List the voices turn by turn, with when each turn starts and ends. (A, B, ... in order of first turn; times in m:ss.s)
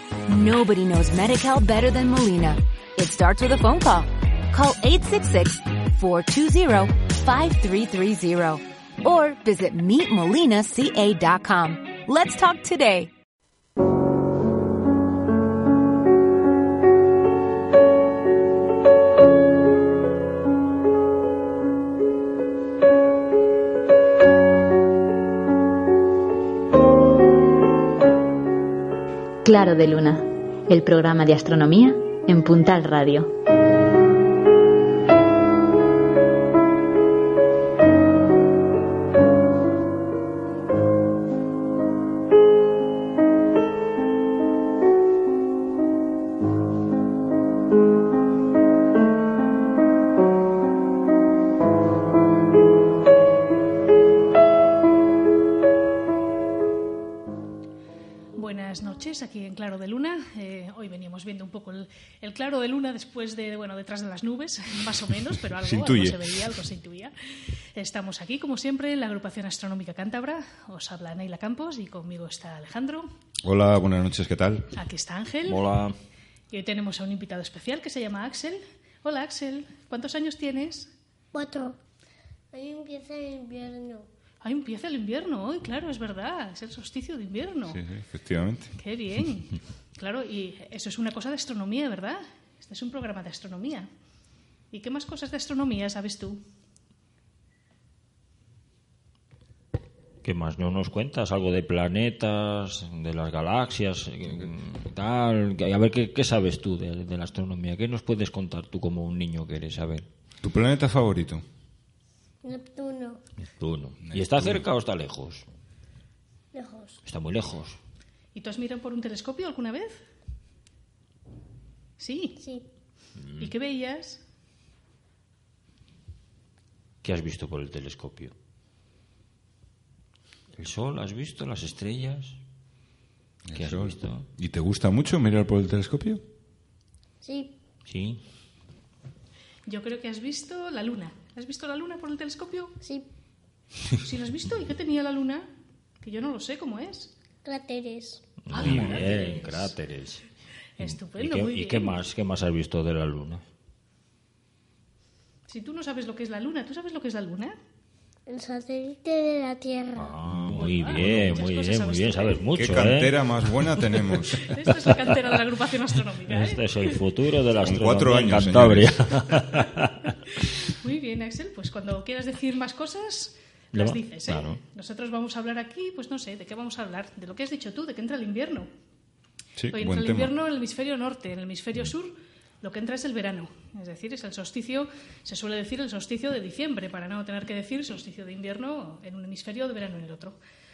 0:00.3-0:13.1 A
0:29.4-0:33.3 B
0:58.3-1:13.1 C
1:05.5-1:06.6 D
1:13.4-1:14.7 D
1:14.7-1:15.6 C
1:15.5-1:16.0 E
1:16.5-1:20.9 C
1:21.3-1:21.8 F
1:22.5-1:24.1 F
1:24.4-1:27.8 C
1:27.7-1:28.7 D
1:28.8-1:33.9 C
1:34.7-1:36.4 C
1:40.2-1:50.1 E
1:50.4-1:51.4 D
1:52.4-1:53.2 F
1:53.6-1:55.4 E
1:54.0-1:54.6 D
1:56.5-1:57.0 F
1:57.0-1:57.8 E
1:58.3-2:00.0 C
2:02.0-2:02.4 C
2:02.4-2:02.6 F
2:03.2-2:03.5 E
2:03.4-2:04.2 C
2:07.0-2:08.3 E
2:10.6-2:12.4 E
2:13.4-2:16.2 D
2:13.5-2:14.2 E
2:17.2-2:17.5 F
2:17.9-2:18.2 E
2:19.7-2:22.7 C
2:22.8-2:23.1 F
2:24.0-2:25.4 C
2:26.0-2:27.1 C
2:27.4-2:28.2 F
2:28.5-2:30.2 E
2:28.5-2:29.7 C
2:30.8-2:32.0 C
2:30.8-2:33.4 E
2:35.5-2:37.6 C
2:38.3-2:40.2 F
2:39.9-2:43.6 E
2:40.5-2:42.5 C
2:42.5-2:44.5 D
2:44.4-2:47.0 C
2:46.2-2:50.1 E
2:47.6-2:49.3 D
2:50.4-2:58.7 C
2:53.7-2:54.6 E
2:59.6-3:00.3 D
2:59.7-3:10.4 C